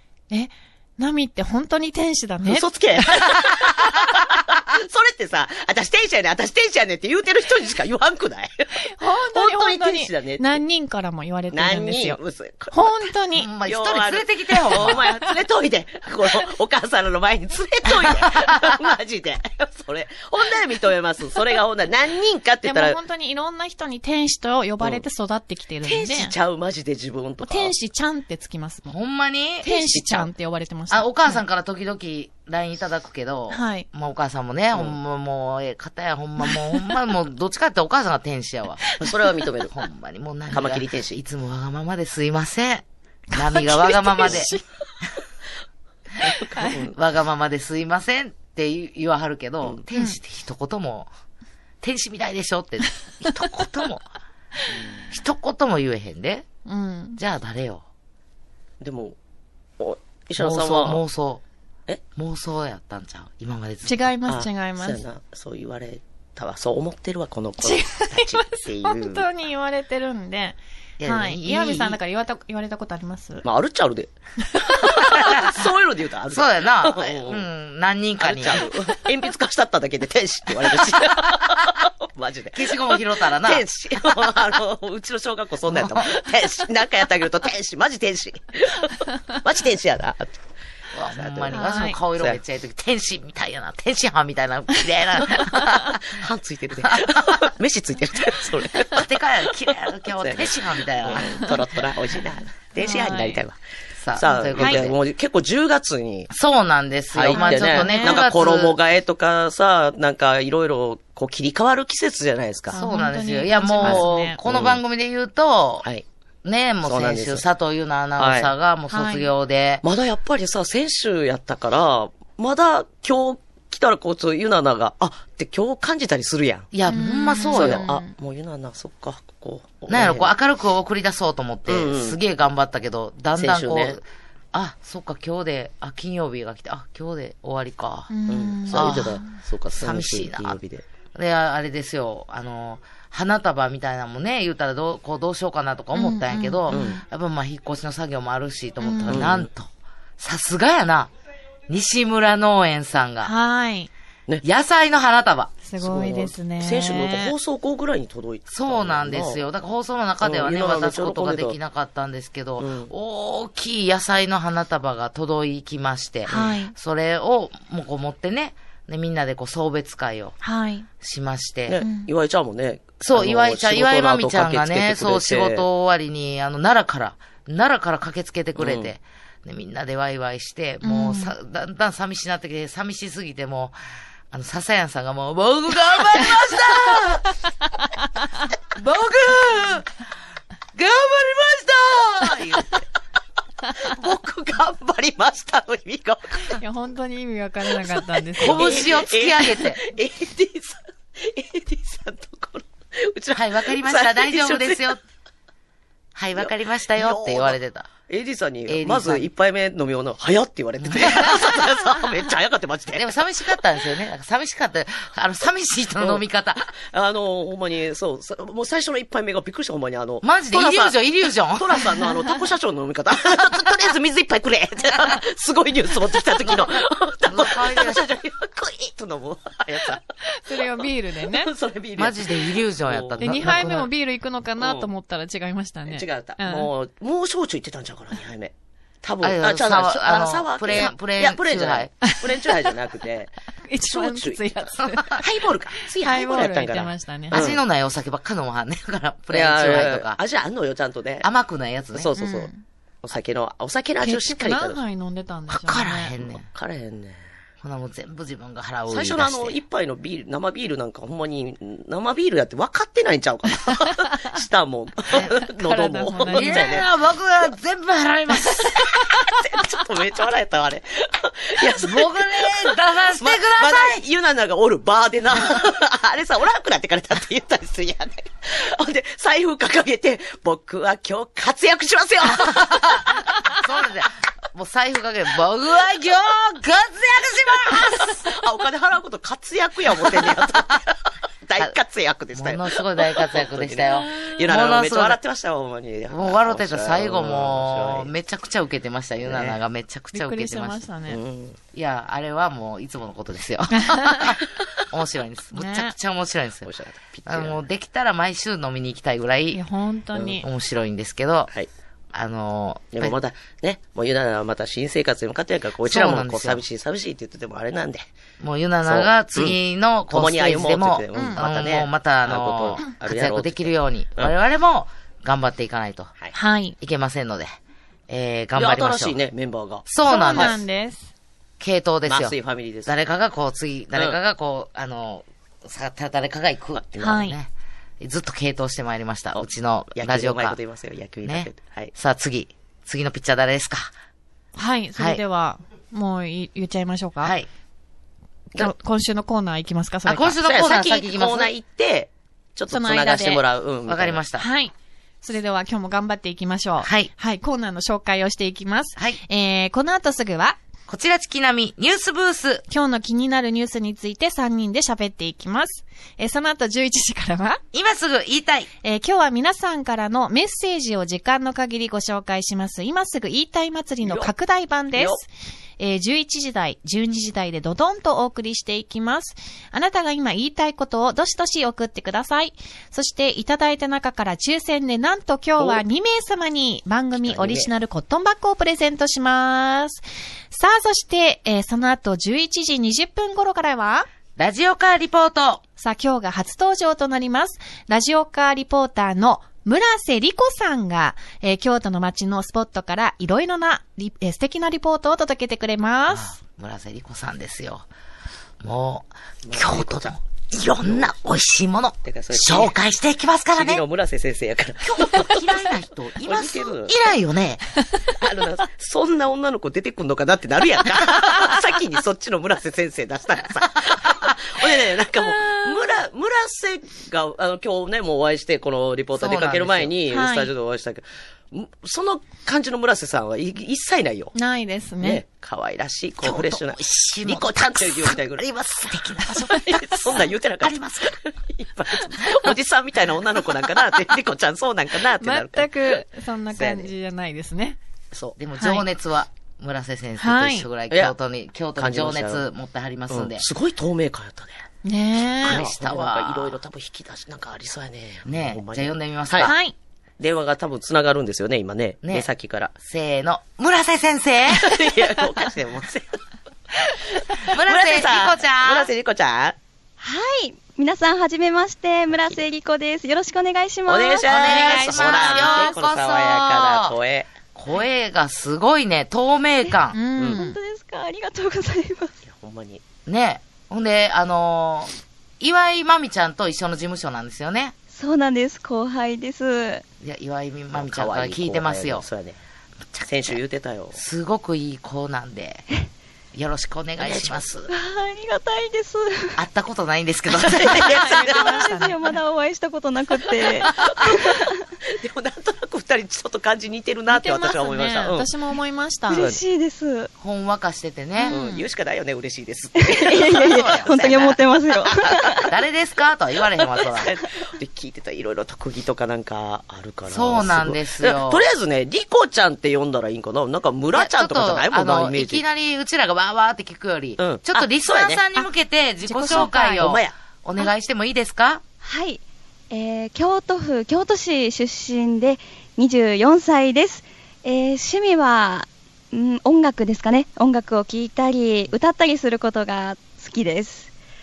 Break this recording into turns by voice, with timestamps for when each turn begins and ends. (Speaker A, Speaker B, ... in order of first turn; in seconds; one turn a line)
Speaker A: 0.3-3.2
Speaker B: 2.5-10.6
Speaker A: 8.8-12.2
Speaker B: 11.5-13.1
Speaker A: 12.7-13.5
Speaker C: 13.3-15.0
Speaker B: 13.7-23.0
Speaker A: 14.7-15.3
Speaker C: 17.9-18.9
Speaker A: 22.7-26.3
Speaker B: 25.8-27.7
Speaker A: 27.4-29.0
Speaker C: 28.9-29.7
Speaker A: 29.6-31.4
Speaker B: 29.7-30.3
Speaker C: 30.9-38.8
Speaker A: 33.5-33.9
Speaker B: 34.7-35.0
Speaker A: 38.8-39.2
Speaker B: 39.0-39.7
Speaker C: 39.7-44.5
Speaker B: 40.5-41.1
Speaker A: 43.3-44.6
Speaker B: 46.2-47.0
Speaker C: 46.9-51.1
Speaker C: 51.8-54.0
Speaker B: 54.7-55.1
Speaker C: 55.1-56.5
Speaker A: 56.7-57.2
Speaker C: 57.2-57.8
Speaker B: 58.8-59.2
Speaker B: 59.8-61.0
Speaker C: 60.4-61.4
Speaker C: 62.1-64.1
Speaker A: 63.8-65.0
Speaker B: 64.3-69.3
Speaker A: 67.6-73.4
Speaker C: 71.0-72.0
Speaker B: 73.4-77.5
Speaker A: 74.6-75.1
Speaker C: 75.1-75.6
Speaker C: 76.3-78.7
Speaker B: 78.2-90.4
Speaker C: 81.4-81.8
Speaker C: 82.5-84.3
Speaker C: 85.7-86.1
Speaker C: 90.9-96.2
Speaker B: 91.1-92.4
Speaker A: 91.5-92.0
Speaker A: 95.4-95.7
Speaker B: 96.1-103.6
Speaker C: 96.8-97.5
Speaker C: 98.8-101.6
Speaker A: 102.8-103.4
Speaker C: 104.0-105.0
Speaker B: 104.2-106.3
Speaker C: 106.3-108.8
Speaker B: 107.1-112.8
Speaker A: 107.3-108.2
Speaker A: 112.7-114.4
Speaker C: 112.7-115.8
Speaker B: 113.8-114.8
Speaker C: 116.4-119.8
Speaker B: 116.8-117.4
Speaker B: 118.2-118.5
Speaker A: 118.9-119.3
Speaker B: 119.8-126.7
Speaker C: 126.7-127.8
Speaker A: 126.9-128.1
Speaker B: 127.5-130.3
Speaker C: 129.9-138.1
Speaker B: 131.7-132.2
Speaker B: 133.4-134.0
Speaker A: 138.1-139.0
Speaker B: 138.3-140.9
Speaker C: 138.7-139.2
Speaker C: 139.7-140.6
Speaker C: 141.1-149.7
Speaker A: 145.9-147.0
Speaker B: 146.7-147.0
Speaker A: 148.8-149.2
Speaker B: 149.1-149.5
Speaker C: 150.2-151.1
Speaker C: 151.7-153.3
Speaker A: 153.2-153.9
Speaker C: 154.4-155.5
Speaker A: 155.6-157.3
Speaker B: 155.8-159.4
Speaker C: 158.5-170.4
Speaker B: 160.2-161.6
Speaker B: 162.6-162.9
Speaker A: 166.3-166.7
Speaker B: 166.3-166.6
Speaker A: 170.4-170.9
Speaker C: 171.0-171.8
Speaker B: 171.7-175.7
Speaker A: 171.8-172.1
Speaker C: 173.0-183.8
Speaker B: 178.6-178.9
Speaker A: 180.8-181.3
Speaker C: 184.3-187.3
Speaker C: 188.8-189.9
Speaker C: 190.8-192.7
Speaker B: 192.2-192.8
Speaker B: 193.8-196.6
Speaker A: 196.6-198.8
Speaker B: 197.9-204.9
Speaker C: 198.4-199.8
Speaker C: 203.3-205.0
Speaker C: 206.2-207.9
Speaker B: 206.4-207.6
Speaker B: 208.1-213.2
Speaker C: 208.7-209.3
Speaker C: 210.8-211.6
Speaker C: 212.9-216.7
Speaker B: 216.0-230.0
Speaker C: 220.2-221.9
Speaker C: 226.5-228.0
Speaker A: 230.2-231.5
Speaker B: 231.3-233.5
Speaker C: 232.0-233.9
Speaker A: 233.2-236.7
Speaker B: 234.6-234.9
Speaker B: 235.9-247.6
Speaker C: 239.2-241.9
Speaker A: 243.7-245.2
Speaker A: 246.0-247.5
Speaker C: 247.3-250.2
Speaker B: 249.3-251.3
Speaker C: 251.2-252.1
Speaker B: 251.9-252.5
Speaker A: 252.2-252.6
Speaker B: 253.0-254.8
Speaker A: 254.0-256.1
Speaker C: 255.5-256.4
Speaker B: 256.2-257.2
Speaker C: 257.6-259.6
Speaker B: 258.9-266.8
Speaker A: 263.7-264.1
Speaker A: 265.1-266.8
Speaker C: 265.1-265.4
Speaker C: 266.3-268.9
Speaker B: 268.6-283.2
Speaker C: 271.6-274.0
Speaker C: 282.3-288.4
Speaker B: 287.8-298.1
Speaker C: 292.4-295.2
Speaker C: 296.1-300.8
Speaker B: 299.2-299.6
Speaker A: 300.1-301.2
Speaker B: 301.1-301.6
Speaker C: 301.7-306.7
Speaker A: 303.8-304.4
Speaker A: 305.5-305.9
Speaker B: 306.6-307.6
Speaker C: 307.3-309.6
Speaker A: 309.5-310.5
Speaker B: 310.1-310.4
Speaker C: 310.4-311.5
Speaker C: 312.1-313.2
Speaker B: 312.9-318.1
Speaker C: 315.8-316.6
Speaker C: 318.4-326.1
Speaker B: 318.9-319.6
Speaker B: 320.1-324.3
Speaker A: 321.1-321.4
Speaker A: 326.3-326.8
Speaker C: 326.8-327.5
Speaker C: 328.1-329.2
Speaker B: 328.6-330.6
Speaker C: 329.9-330.6
Speaker A: 330.0-331.1
Speaker C: 331.6-340.6
Speaker B: 332.1-332.9
Speaker A: 337.0-337.4
Speaker B: 339.4-341.9
Speaker C: 341.2-343.9
Speaker A: 344.6-347.4
Speaker C: 345.0-345.2
Speaker C: 347.2-347.5
Speaker A: 348.5-350.4
Speaker C: 350.1-351.5
Speaker B: 350.4-354.2
Speaker A: 352.7-353.4
Speaker C: 353.9-354.5
Speaker A: 354.4-360.6
Speaker C: 356.8-357.1
Speaker C: 360.9-362.6
Speaker A: 362.7-367.6
Speaker C: 367.7-368.7
Speaker A: 368.8-375.3
Speaker B: 374.0-374.3
Speaker B: 374.9-375.2
Speaker A: 375.8-394.1
Speaker B: 387.2-387.7
Speaker C: 394.4-395.6
Speaker A: 395.8-406.4
Speaker C: 406.1-407.9
Speaker C: 408.6-413.8
Speaker B: 409.4-410.2
Speaker B: 410.8-411.1
Speaker B: 412.1-412.7
Speaker B: 413.5-417.0
Speaker C: 414.8-417.6
Speaker B: 418.1-434.3
Speaker C: 429.2-429.9
Speaker A: 430.1-430.5
Speaker A: 434.3-435.2
Speaker B: 435.0-446.9
Speaker C: 436.2-438.2
Speaker C: 438.8-441.2
Speaker C: 442.2-442.5
Speaker A: 445.2-447.8
Speaker B: 448.1-448.4
Speaker C: 448.4-453.5
Speaker A: 448.6-448.9
Speaker A: 450.2-450.7
Speaker B: 451.8-452.5
Speaker B: 453.1-454.5
Speaker A: 454.9-455.6
Speaker B: 455.4-459.6
Speaker C: 455.4-456.6
Speaker C: 458.2-459.6
Speaker A: 459.4-459.8
Speaker B: 460.2-462.7
Speaker C: 462.8-464.8
Speaker B: 464.5-466.2
Speaker B: 467.4-469.6
Speaker C: 467.5-468.9
Speaker D: 470.0-474.3
Speaker B: 472.2-472.4
Speaker B: 473.9-477.3
Speaker C: 474.2-477.0
Speaker A: 474.4-475.7
Speaker C: 477.5-480.0
Speaker D: 479.6-482.2
Speaker A: 479.9-480.6
Speaker B: 482.2-482.8
Speaker C: 483.1-487.7
Speaker D: 487.9-489.8
Speaker C: 490.0-492.1
Speaker B: 490.7-492.4
Speaker C: 492.9-493.4
Speaker B: 493.0-494.0
Speaker C: 493.9-495.7
Speaker C: 496.4-497.7
Speaker B: 497.0-497.6
Speaker D: 497.7-499.4
Speaker C: 499.4-501.1
Speaker B: 500.4-501.7
Speaker D: 500.6-504.6
Speaker A: 500.9-502.1
Speaker B: 503.8-508.3
Speaker A: 507.1-509.2
Speaker D: 509.1-510.1
Speaker B: 509.1-509.4
Speaker C: 510.2-511.4
Speaker A: 511.2-511.7
Speaker B: 511.3-515.5
Speaker D: 512.8-515.5
Speaker C: 513.4-514.2
Speaker C: 515.5-517.1
Speaker B: 516.7-525.4
Speaker C: 520.1-521.5
Speaker C: 523.9-531.6
Speaker B: 527.2-528.2
Speaker A: 529.0-529.8
Speaker B: 529.3-530.1
Speaker D: 531.8-543.9